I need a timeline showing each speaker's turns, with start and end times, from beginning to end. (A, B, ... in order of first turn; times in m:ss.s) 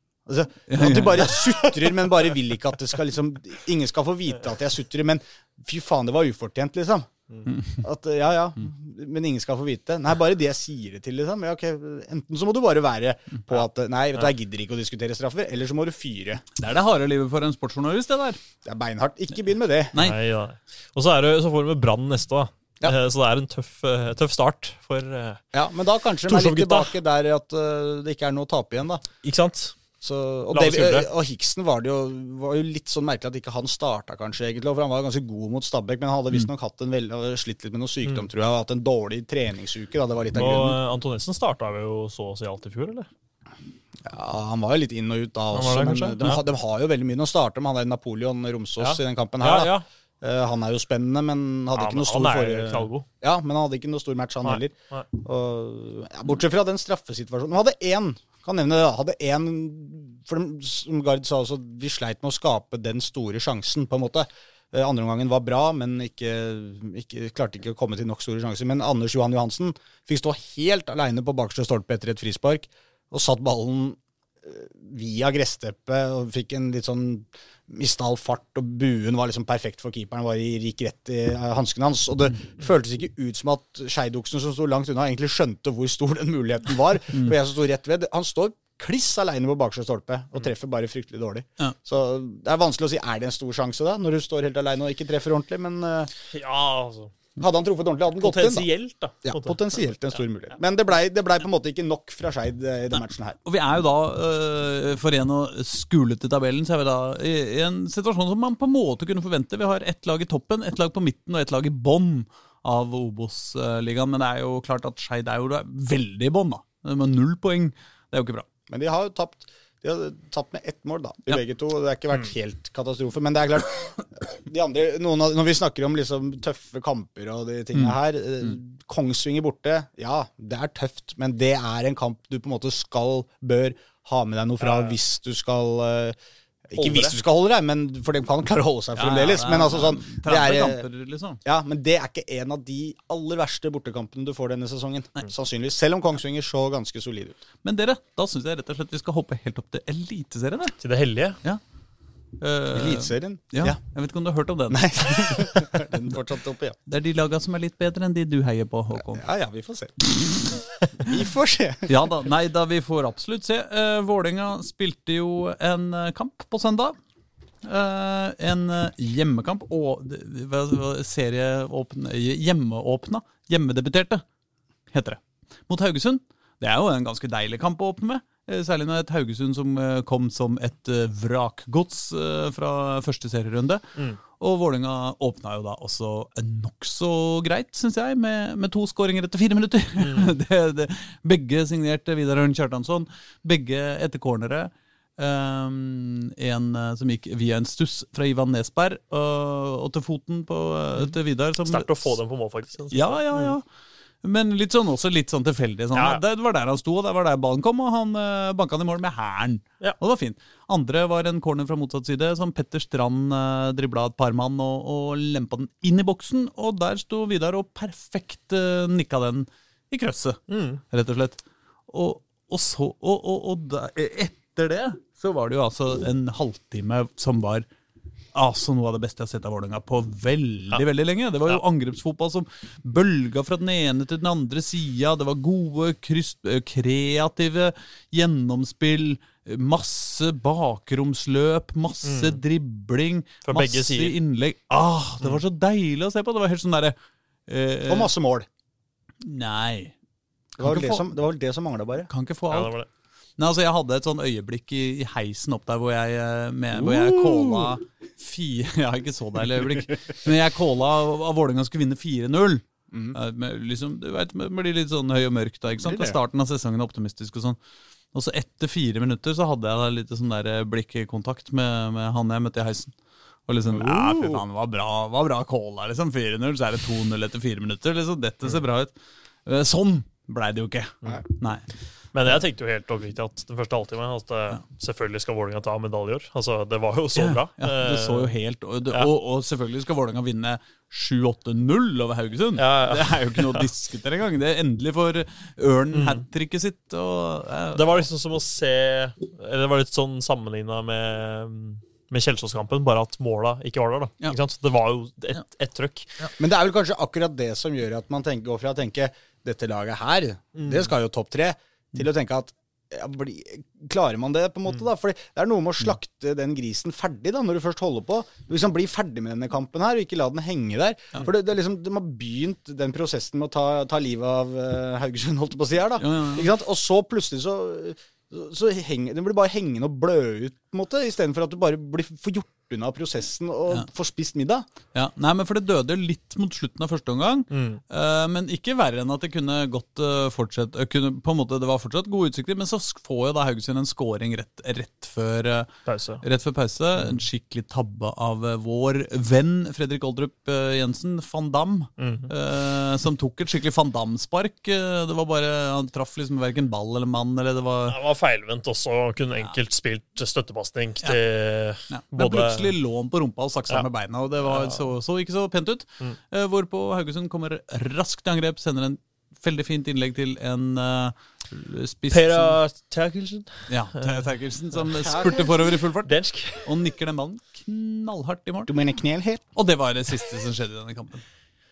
0:00.3-0:07.1 A
0:00.7-0:01.4 B
0:01.4-0:01.9 C
0:07.8-0:16.4 A
0:16.6-0:18.4 B
0:18.6-0:20.0 A
0:19.9-0:20.2 B
0:20.0-0:25.4 C
0:25.5-0:29.0 A
0:26.2-0:26.9 C
0:29.2-0:29.8 C
0:30.0-0:40.8 A
0:30.5-0:31.1 C
0:40.3-0:43.1 C
0:44.0-1:36.1 A
0:45.5-0:46.4 C
0:48.8-0:49.8 C
0:51.8-0:53.1 C
0:54.4-0:55.1 C
1:36.3-1:37.1 C
1:37.4-1:38.7 A
1:38.2-1:40.2 C
1:39.2-1:43.4 A
1:43.4-1:58.5 B
1:58.7-2:16.2 A
2:07.7-2:08.5 B
2:14.6-2:15.0 C
2:16.7-2:20.9 A
2:16.8-2:17.2 C
2:19.0-2:21.4 B
2:21.4-2:27.4 A
2:27.6-2:30.8 B
2:30.8-2:31.4 C
2:32.4-2:35.6 B
2:32.7-2:33.8 A
2:34.7-2:36.8 A
2:36.9-2:39.2 B
2:38.9-2:40.2 A
2:41.0-2:42.0 A
2:41.9-2:47.0 B
2:47.6-2:54.2 B
2:54.9-3:22.2 B
3:10.0-3:10.3 C
3:21.6-3:23.5 C
3:22.9-3:23.6 B
3:24.2-3:47.7 B
3:25.9-3:26.2 C
3:40.5-3:40.8 C
3:48.3-4:07.0 B
4:02.0-4:02.4 C
4:03.4-4:04.2 C
4:07.5-4:08.1 B
4:07.9-4:08.5 A
4:09.2-4:09.9 B
4:10.6-4:12.1 A
4:10.6-4:11.1 B
4:12.1-4:12.7 B
4:12.5-4:12.9 C
4:13.4-4:27.6 B
4:16.8-4:17.8 A
4:22.9-4:23.2 A
4:25.8-4:26.2 A
4:28.1-4:32.9 B
4:33.5-4:38.9 B
4:33.7-4:34.4 A
4:39.4-4:41.7 B
4:42.1-4:48.3 C
4:47.2-4:58.1 B
4:52.6-4:53.7 C
4:55.9-4:56.2 C
4:57.7-5:06.2 C
5:06.4-5:34.7 A
5:10.6-5:10.9 C
5:26.0-5:26.5 B
5:34.9-5:45.7 B
5:37.5-5:37.8 C
5:45.9-5:46.2 C
5:46.2-5:58.0 B
5:52.0-5:52.3 C
5:57.9-6:02.8 C
6:01.9-6:12.6 B
6:04.4-6:04.9 C
6:12.1-6:14.2 C
6:13.7-6:18.7 B
6:15.0-6:15.6 A
6:16.0-6:16.7 C
6:18.7-6:19.4 A
6:19.6-6:21.2 B